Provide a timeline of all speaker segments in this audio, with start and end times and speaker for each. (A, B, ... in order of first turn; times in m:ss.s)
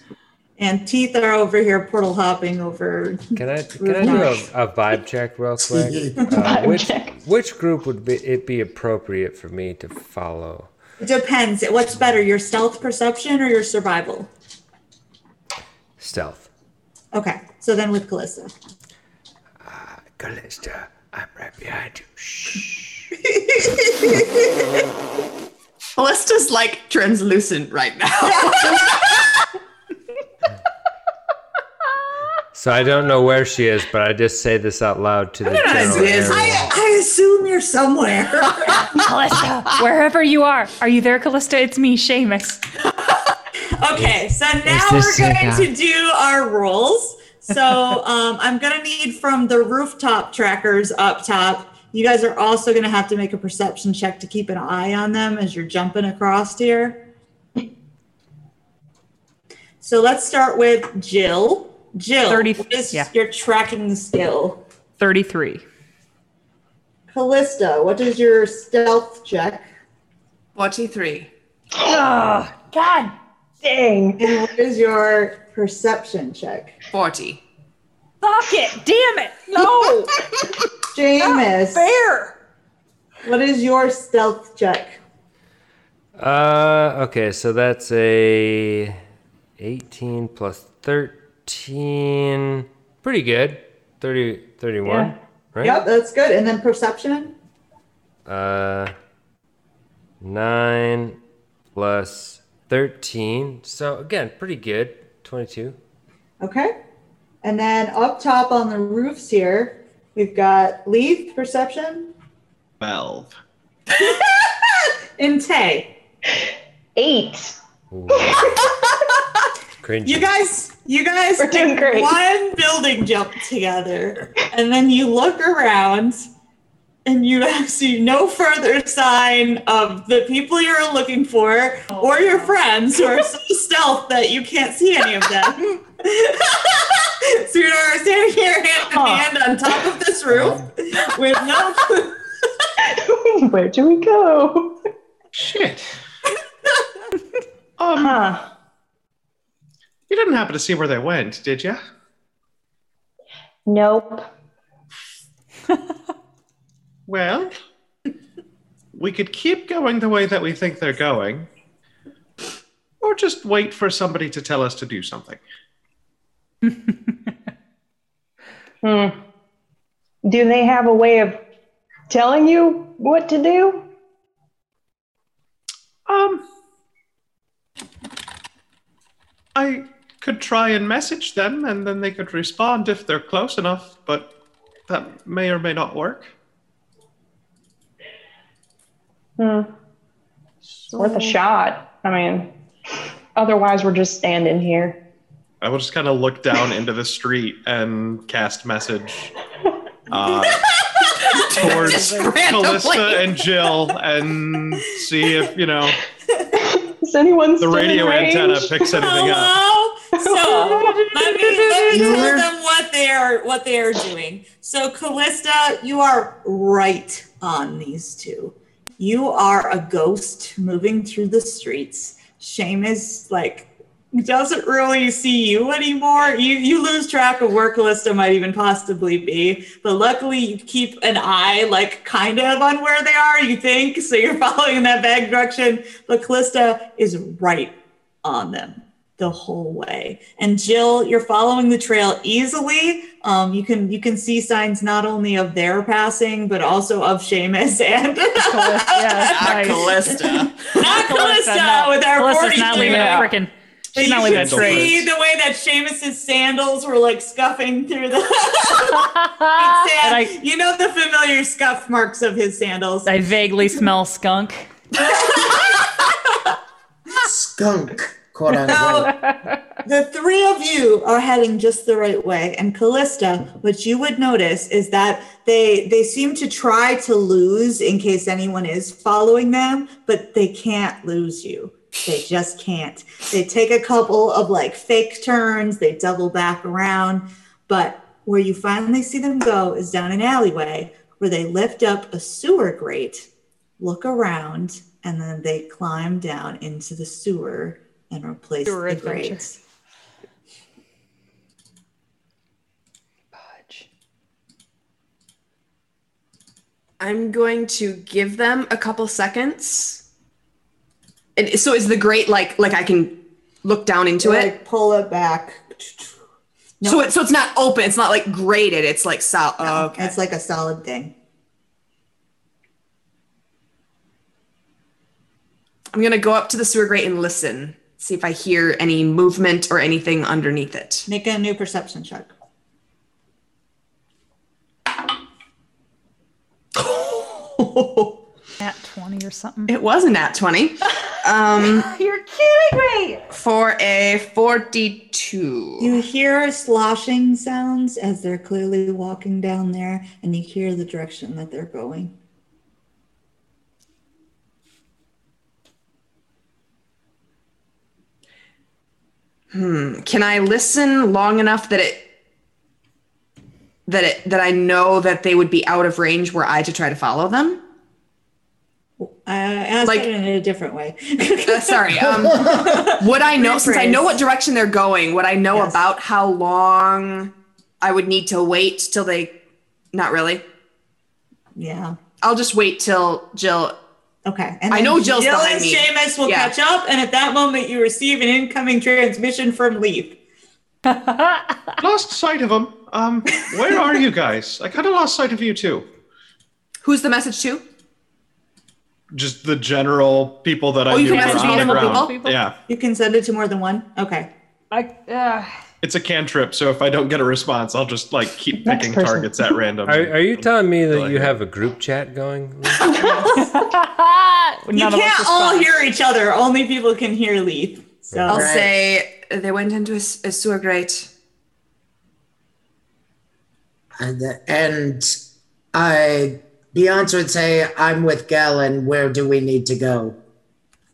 0:00.6-0:04.5 A
0:03.3-0:10.7 B
0:05.6-0:06.3 C
0:06.4-0:07.2 D
0:11.0-0:14.3 A
0:16.0-0:16.5 B
0:17.1-0:18.5 A
0:19.6-0:23.1 B
0:23.2-0:24.4 A
0:26.0-0:29.2 E
0:28.2-0:29.2 A
0:32.5-0:36.7 B
0:35.6-0:35.9 F
0:35.6-0:38.9 A
0:35.6-0:36.7 E
0:38.9-0:42.6 F
0:43.8-0:57.0 A
0:43.9-0:45.7 B
0:59.8-1:04.6 A
1:02.3-1:03.1 F
1:05.0-1:05.6 F
1:07.1-1:09.7 A
1:10.6-1:11.3 E
1:11.8-1:13.1 F
1:13.6-1:14.4 D
1:14.2-1:16.7 A
1:16.9-1:17.4 E
1:18.2-1:20.1 F
1:20.9-1:21.9 A
1:21.2-1:22.3 F
1:23.2-1:25.0 A
1:26.2-1:29.0 B
1:29.6-1:35.8 B
1:34.8-1:35.1 D
1:35.6-1:37.4 A
1:38.2-1:38.9 B
1:40.2-1:41.2 B
1:41.7-1:45.8 B
1:46.4-1:46.7 A
1:47.4-1:52.1 A
1:52.8-1:53.3 G
1:53.9-1:55.9 A
1:57.0-1:57.6 D
1:57.9-1:58.6 B
1:58.1-1:58.6 D
1:59.8-2:00.3 B
2:00.0-2:06.3 A
2:01.4-2:02.2 D
2:07.0-2:22.1 A
2:11.9-2:12.6 F
2:18.9-2:19.3 D
2:20.3-2:20.7 C
2:22.8-2:24.8 D
2:25.3-2:25.9 G
2:27.8-2:28.2 G
2:28.0-2:28.5 D
2:30.1-2:31.8 G
2:33.6-2:34.3 D
2:37.1-2:37.5 G
2:38.9-2:41.5 G
2:43.0-2:45.4 G
2:48.8-2:49.2 D
2:50.2-2:51.4 D
2:52.1-2:53.9 D
2:56.1-2:56.4 G
2:59.5-3:04.3 G
3:04.9-3:06.3 G
3:09.4-3:09.7 D
3:10.9-3:12.5 D
3:13.3-3:15.0 D
3:15.6-3:19.3 G
3:20.1-3:20.6 G
3:20.8-3:23.4 E
3:21.4-3:26.0 G
3:26.6-3:29.0 D
3:27.6-3:29.6 G
3:29.0-4:13.3 A
3:30.1-3:31.2 D
3:30.8-3:32.3 F
3:31.9-3:32.5 C
4:08.4-4:10.2 F
4:09.3-4:10.7 E
4:10.8-4:14.9 F
4:12.7-4:13.3 E
4:13.9-4:23.1 A
4:14.2-4:15.1 G
4:19.0-4:20.3 F
4:23.0-4:24.7 F
4:25.0-4:25.9 A
4:27.2-4:29.1 C
4:28.6-4:29.2 A
4:28.7-4:29.5 F
4:29.8-4:53.3 A
4:53.8-4:59.6 A
4:58.6-4:59.4 F
5:03.3-5:03.9 F
5:07.0-5:10.0 E
5:11.4-5:14.5 E
5:14.2-5:16.2 A
5:16.8-5:17.1 A
5:16.8-5:20.2 E
5:19.6-5:21.1 A
5:25.9-5:31.1 E
5:31.1-5:32.3 A
5:36.9-5:38.0 E
5:38.6-5:39.7 F
5:39.7-5:41.9 E
5:41.6-5:43.3 F
5:43.3-5:46.0 E
5:45.8-5:52.1 A
5:59.5-6:02.0 E
6:03.8-6:07.6 E
6:09.0-6:14.2 A
6:09.8-6:10.1 E
6:11.4-6:19.3 E
6:12.0-6:12.9 C
6:15.5-6:15.8 A
6:19.9-6:20.4 E
6:21.6-6:22.0 A
6:22.2-6:23.7 E
6:24.2-6:30.2 A
6:24.7-6:26.5 E
6:30.9-6:31.7 F
6:31.8-6:35.8 G
6:36.8-6:37.6 E
6:39.1-6:42.5 G
6:40.9-6:42.2 E
6:41.1-6:42.0 A
6:41.1-6:42.4 F
6:42.7-6:44.3 A
6:44.7-6:45.5 F
6:45.8-6:51.4 G
6:48.5-6:49.6 D
6:49.8-6:53.0 B
6:52.8-6:53.5 D
6:53.0-6:55.7 F
6:54.7-6:58.5 A
6:58.2-6:58.7 C
6:58.3-7:01.1 E
7:04.0-7:05.2 C
7:05.7-7:10.2 C